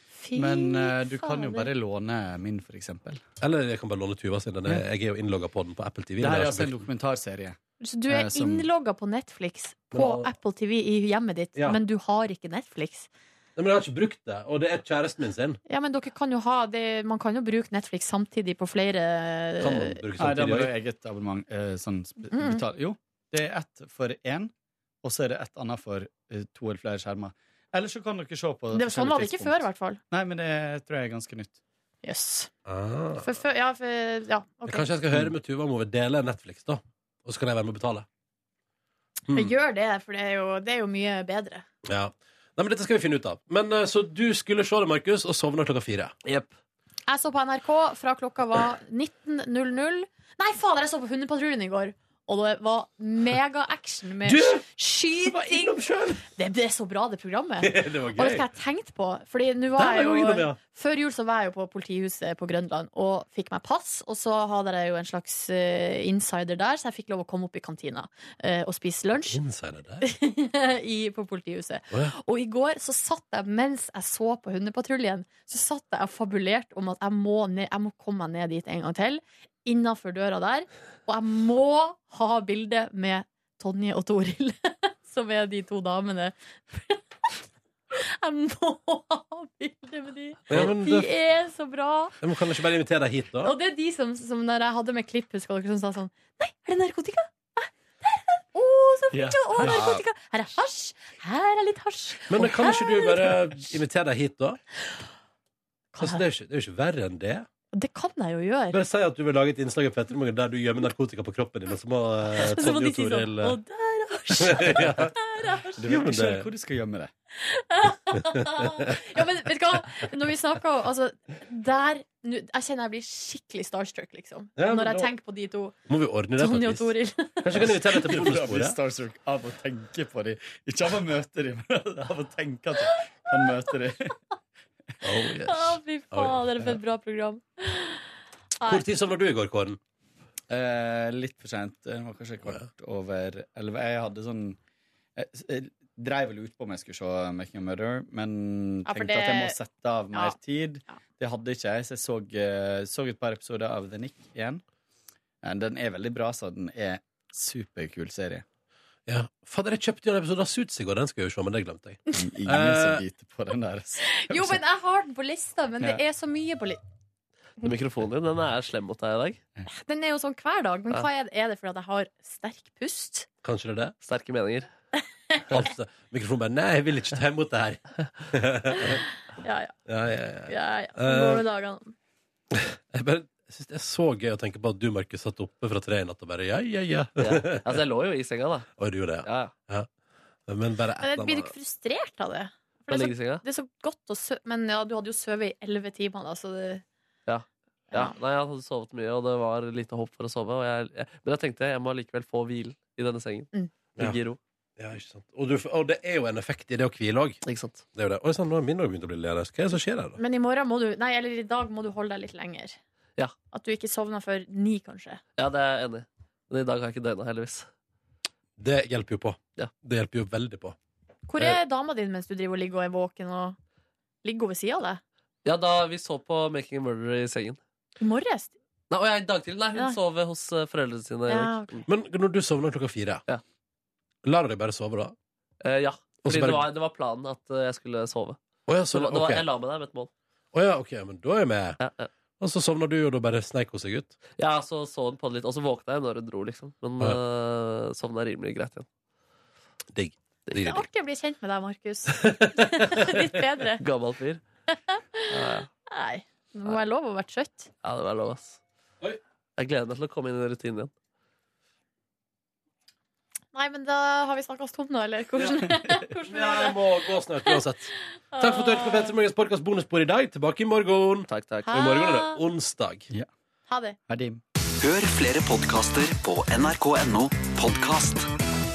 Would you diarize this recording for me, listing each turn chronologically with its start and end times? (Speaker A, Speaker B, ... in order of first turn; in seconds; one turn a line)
Speaker A: 0.2-1.7
Speaker B: 0.3-3.2
Speaker C: 3.4-6.8
Speaker B: 6.2-8.7
Speaker A: 7.8-13.1
Speaker C: 9.9-10.3
Speaker C: 13.6-15.6
Speaker A: 15.7-20.0
Speaker C: 19.6-20.7
Speaker B: 20.2-24.5
Speaker A: 22.3-22.6
Speaker B: 25.0-31.6
Speaker A: 28.7-30.0
Speaker A: 32.0-32.5
Speaker C: 32.7-33.3
Speaker A: 33.2-34.9
Speaker C: 34.7-38.1
Speaker C: 39.3-39.5
Speaker A: 39.3-41.6
Speaker C: 41.8-46.4
Speaker A: 47.1-69.4
Speaker C: 54.2-54.6
Speaker C: 55.2-56.2
Speaker C: 57.6-58.5
Speaker C: 59.8-60.6
Speaker C: 69.3-70.0
Speaker A: 70.0-87.4
Speaker A: 87.9-92.2
Speaker C: 90.5-91.1
Speaker C: 92.2-93.5
Speaker A: 93.4-103.4
Speaker C: 99.1-100.0
Speaker C: 102.3-104.6
Speaker A: 105.9-106.2
Speaker C: 106.0-107.5
Speaker A: 107.7-108.8
Speaker C: 108.7-113.6
Speaker A: 112.4-115.8
Speaker C: 114.4-115.1
Speaker B: 115.8-117.1
Speaker C: 115.8-116.5
Speaker A: 117.4-125.8
Speaker C: 118.4-118.9
Speaker C: 124.6-125.1
Speaker C: 125.9-126.9
Speaker A: 126.4-128.1
Speaker C: 127.4-128.8
Speaker B: 127.5-134.2
Speaker C: 135.0-136.7
Speaker A: 135.3-138.0
Speaker A: 138.6-138.8
Speaker C: 138.7-139.8
Speaker B: 140.5-144.6
Speaker B: 145.2-154.6
Speaker A: 148.9-149.6
Speaker B: 155.4-158.4
Speaker C: 159.1-163.0
Speaker B: 162.1-164.6
Speaker A: 164.1-166.8
Speaker D: 167.6-169.4
Speaker A: 169.7-173.3
Speaker C: 173.4-173.9
Speaker D: 174.0-174.7
Speaker C: 175.5-179.0
Speaker A: 178.8-179.7
Speaker C: 179.9-181.4
Speaker A: 180.5-181.9
Speaker C: 182.5-187.7
Speaker D: 187.2-188.7
Speaker C: 188.8-189.9
Speaker D: 189.2-189.5
Speaker C: 190.5-191.5
Speaker A: 191.0-196.8
Speaker D: 192.9-193.4
Speaker D: 197.3-204.4
Speaker C: 204.8-207.4
Speaker D: 207.4-207.8
Speaker C: 207.9-210.2
Speaker A: 210.2-212.8
Speaker A: 213.5-215.2
Speaker D: 215.4-217.7
Speaker C: 218.6-220.8
Speaker A: 221.3-223.6
Speaker A: 224.2-225.0
Speaker D: 225.4-227.6
Speaker A: 228.0-228.5
Speaker D: 228.9-231.8
Speaker A: 231.3-231.7
Speaker C: 231.9-233.2
Speaker C: 234.2-235.2
Speaker D: 235.6-238.4
Speaker C: 236.2-236.7
Speaker C: 238.7-239.4
Speaker D: 238.9-240.1
Speaker C: 240.5-241.8
Speaker D: 241.8-242.1
Speaker C: 242.4-244.2
Speaker D: 244.4-248.9
Speaker C: 249.9-250.8
Speaker A: 250.6-253.8
Speaker C: 252.2-253.2
Speaker D: 253.8-254.4
Speaker A: 254.7-255.3
Speaker D: 255.3-255.7
Speaker A: 255.9-257.7
Speaker D: 257.8-258.6
Speaker D: 259.6-260.9
Speaker A: 263.5-267.6
Speaker C: 266.3-273.1
Speaker A: 268.3-269.1
Speaker D: 271.3-271.7
Speaker A: 271.7-272.4
Speaker A: 273.7-274.0
Speaker B: 274.1-274.4
Speaker E: 274.8-278.3